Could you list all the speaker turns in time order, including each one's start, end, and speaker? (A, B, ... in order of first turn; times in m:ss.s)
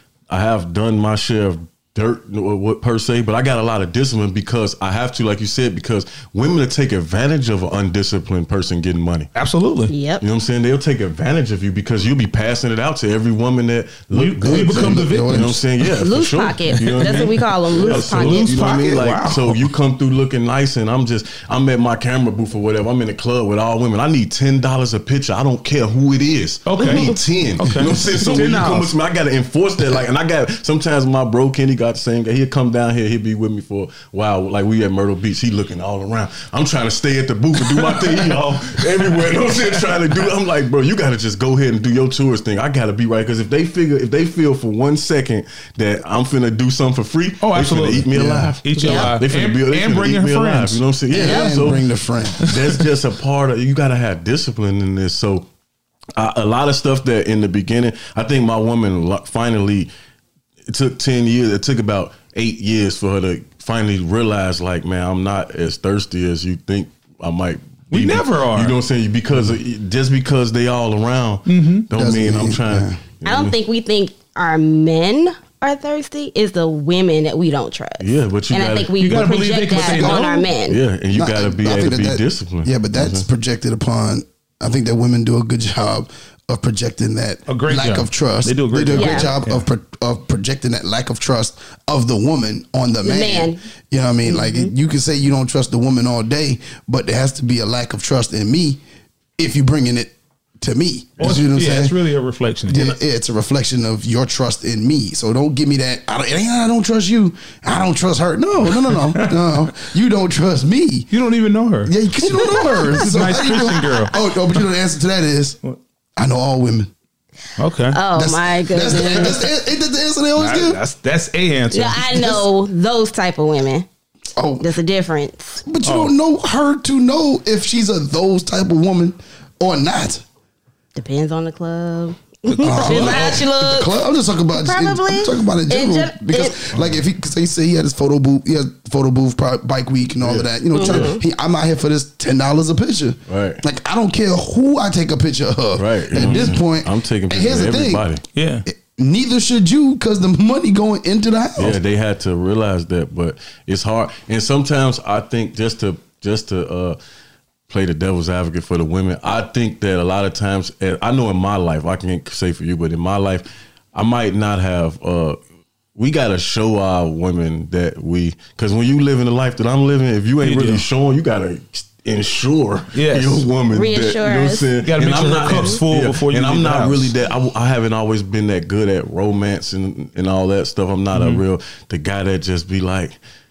0:00.3-0:09.3 A
0:09.3-0:09.9 B
0:09.9-0:10.2 C
0:10.2-0:51.9 A
0:14.1-0:15.5 B
0:14.4-0:15.6 D
0:16.0-0:19.0 C
0:17.8-0:19.6 B
0:26.6-0:28.9 B
0:26.8-0:27.1 C
0:37.7-0:38.2 B
0:38.8-0:40.1 B
0:47.4-0:48.1 B
0:48.1-0:48.5 D
0:48.6-0:50.8 B
0:48.8-0:49.1 C
0:51.1-0:52.4 D
0:51.1-0:51.8 C
0:52.4-0:52.8 B
0:52.4-0:55.5 A
0:56.2-0:59.9 A
1:00.7-1:13.5 A
1:07.9-1:08.7 B
1:11.5-1:11.9 B
1:11.9-1:13.0 D
1:13.2-1:20.8 C
1:18.0-1:19.3 A
1:19.0-1:20.5 B
1:19.8-1:20.1 D
1:20.6-1:23.2 A
1:21.1-1:38.8 D
1:27.5-1:29.7 B
1:28.9-1:29.3 C
1:33.0-1:33.6 C
1:34.2-1:34.7 C
1:39.4-1:41.9 D
1:41.2-1:43.0 B
1:42.7-1:51.1 D
1:49.0-1:49.7 B
1:51.1-1:54.1 B
1:51.8-1:55.6 D
1:52.2-1:52.9 C
1:56.2-1:56.9 D
1:57.6-1:58.0 B
1:57.9-1:59.4 C
1:58.1-2:00.8 D
1:59.0-1:59.4 B
2:00.4-2:02.0 B
2:01.7-2:03.9 C
2:02.0-2:02.5 D
2:04.4-2:04.7 D
2:04.6-2:05.6 C
2:05.6-2:10.2 D
2:05.8-2:06.1 B
2:10.9-2:14.0 C
2:12.5-2:28.0 D
2:14.5-2:16.7 C
2:20.2-2:21.1 A
2:20.7-2:21.2 C
2:23.3-2:23.6 A
2:25.8-2:28.2 A
2:28.3-2:28.6 B
2:28.6-2:31.8 D
2:31.6-2:37.0 A
2:37.7-2:45.4 A
2:45.9-3:03.2 A
2:50.4-2:50.8 B
2:52.9-2:53.4 B
2:53.7-2:54.7 C
2:54.8-2:57.1 B
3:01.1-3:01.4 B